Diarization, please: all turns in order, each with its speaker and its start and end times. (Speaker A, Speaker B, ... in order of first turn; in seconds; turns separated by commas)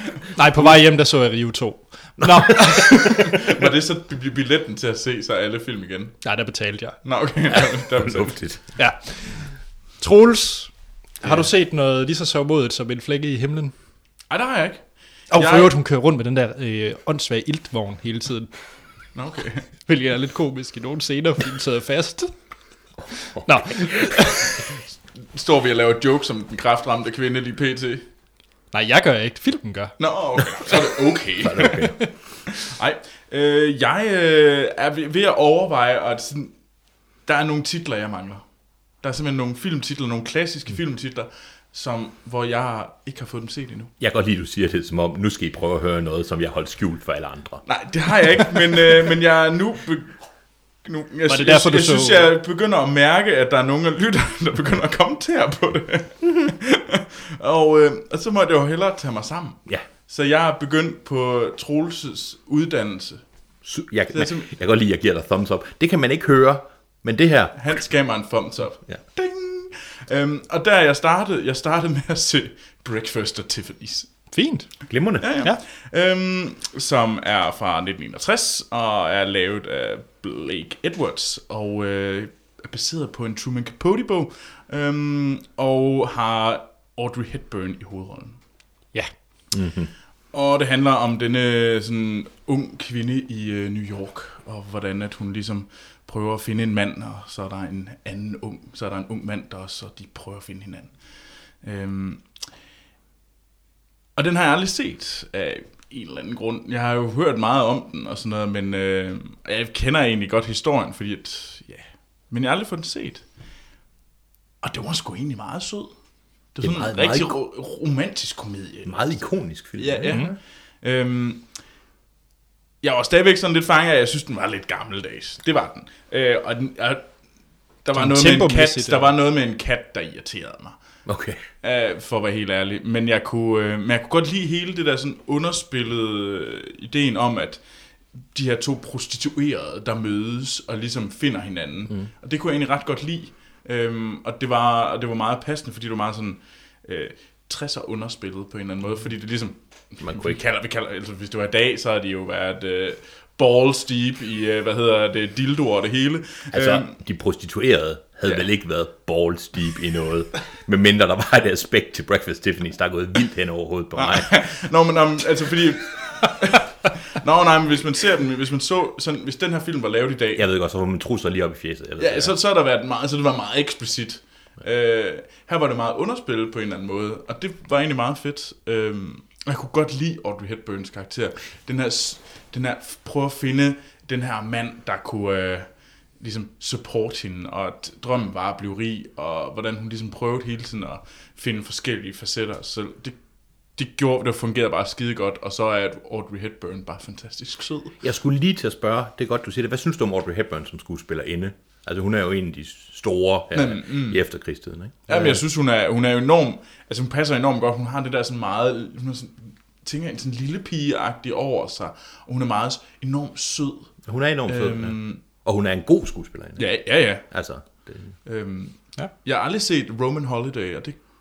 Speaker A: 0.3-3.2, Speaker B: 2.2-3.5, Speaker C: 3.0-6.2, Speaker A: 6.2-7.0, Speaker C: 7.0-8.4, Speaker B: 7.5-8.6, Speaker A: 8.8-13.7, Speaker C: 14.3-15.7, Speaker A: 15.3-18.5, Speaker C: 19.1-19.7, Speaker A: 19.9-22.3, Speaker A: 23.4-24.6, Speaker C: 25.2-28.1, Speaker A: 28.7-30.0, Speaker C: 30.0-31.8, Speaker B: 31.4-32.0, Speaker A: 31.8-32.1, Speaker C: 32.5-36.5, Speaker C: 37.3-38.4, Speaker C: 39.0-43.9, Speaker B: 44.0-47.6, Speaker C: 47.7-50.2, Speaker C: 50.9-63.2, Speaker A: 51.3-52.3, Speaker B: 63.6-67.6, Speaker C: 64.1-64.5, Speaker C: 67.6-74.1, Speaker A: 74.3-74.7, Speaker B: 74.9-75.3, Speaker C: 75.2-88.4, Speaker B: 89.5-89.9, Speaker C: 90.3-101.0, Speaker C: 101.6-102.3, Speaker C: 104.2-113.2, Speaker C: 114.6-115.9, Speaker C: 116.5-119.2, Speaker B: 116.6-117.4, Speaker B: 118.9-120.3, Speaker C: 119.8-121.5, Speaker C: 122.8-127.0, Speaker C: 127.8-130.8, Speaker A: 127.9-129.1, Speaker B: 131.1-131.4, Speaker C: 131.6-137.6, Speaker C: 138.3-156.9, Speaker B: 150.0-150.4, Speaker B: 156.5-164.4, Speaker C: 164.0-170.4, Speaker B: 170.4-172.3, Speaker C: 172.0-193.2, Speaker C: 193.8-197.9, Speaker B: 198.0-205.4, Speaker C: 203.5-204.2, Speaker C: 205.1-213.9, Speaker B: 214.1-218.1, Speaker C: 214.5-215.2, Speaker C: 216.6-217.7, Speaker C: 218.2-221.0